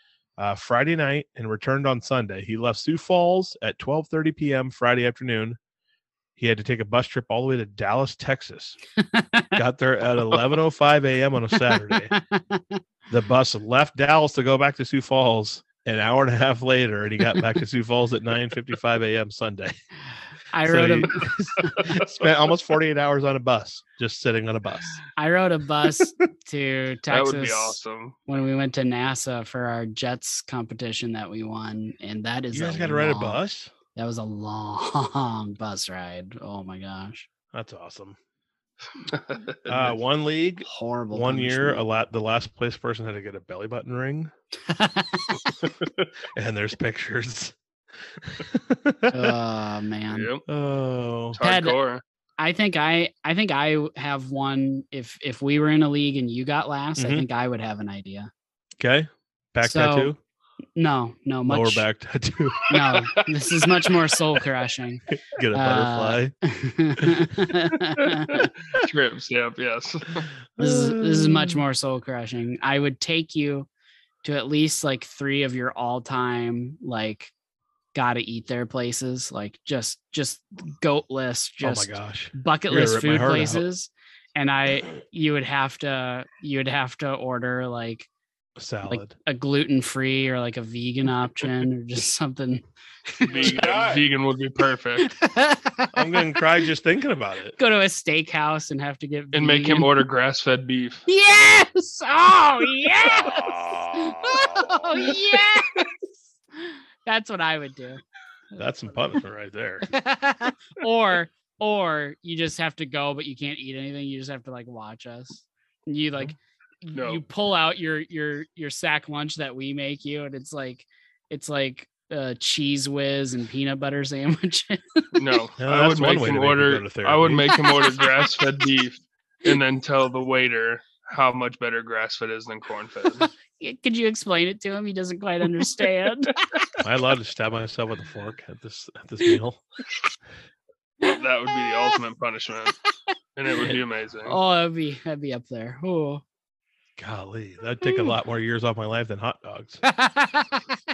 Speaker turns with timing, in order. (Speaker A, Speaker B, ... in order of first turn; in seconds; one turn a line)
Speaker A: 0.4-5.6
Speaker A: 6.4-8.8
Speaker B: 9.0-9.6
Speaker A: 9.6-12.1
Speaker B: 11.7-12.8
Speaker A: 13.1-19.8
Speaker B: 20.5-21.9
Speaker A: 20.6-25.0
Speaker C: 21.8-22.1
Speaker B: 25.2-33.4
Speaker C: 27.1-28.2
Speaker A: 32.5-33.7
Speaker B: 34.0-37.3
Speaker A: 37.5-38.2
Speaker C: 39.0-40.0
Speaker A: 39.7-44.3
Speaker B: 40.6-41.9
Speaker B: 44.7-45.6
Speaker A: 46.3-47.6
Speaker A: 48.1-49.4
Speaker B: 49.1-50.3
Speaker C: 50.1-50.4
Speaker A: 50.5-51.4
Speaker C: 51.4-52.0
Speaker B: 51.4-51.8
Speaker B: 52.4-58.3
Speaker A: 57.0-57.3
Speaker A: 58.8-60.2
Speaker B: 59.6-60.1
Speaker B: 60.8-61.9
Speaker A: 61.5-62.7
Speaker B: 62.7-68.5
Speaker C: 62.9-64.2
Speaker A: 65.1-66.3
Speaker A: 67.0-67.4
Speaker C: 68.3-70.3
Speaker A: 70.6-71.6
Speaker B: 70.6-73.7
Speaker B: 74.2-77.3
Speaker B: 77.9-88.1
Speaker A: 81.6-83.7
Speaker A: 88.6-89.1
Speaker B: 88.9-93.7
Speaker C: 93.3-95.1
Speaker A: 93.4-94.0
Speaker B: 95.0-96.4
Speaker A: 95.9-97.6
Speaker B: 97.6-100.0
Speaker C: 99.3-101.1
Speaker B: 101.1-105.8
Speaker A: 103.1-105.0
Speaker C: 105.1-105.9
Speaker B: 106.6-108.0
Speaker B: 108.5-109.0
Speaker A: 108.6-109.9
Speaker B: 109.9-125.1
Speaker C: 117.0-117.2
Speaker C: 125.2-133.3
Speaker A: 125.6-127.5
Speaker B: 127.5-128.3
Speaker B: 133.6-136.4
Speaker A: 136.8-139.6
Speaker B: 141.0-142.0
Speaker C: 141.0-142.8
Speaker C: 143.4-144.4
Speaker B: 144.2-146.2
Speaker A: 147.0-149.8
Speaker B: 147.8-148.1
Speaker B: 149.8-150.6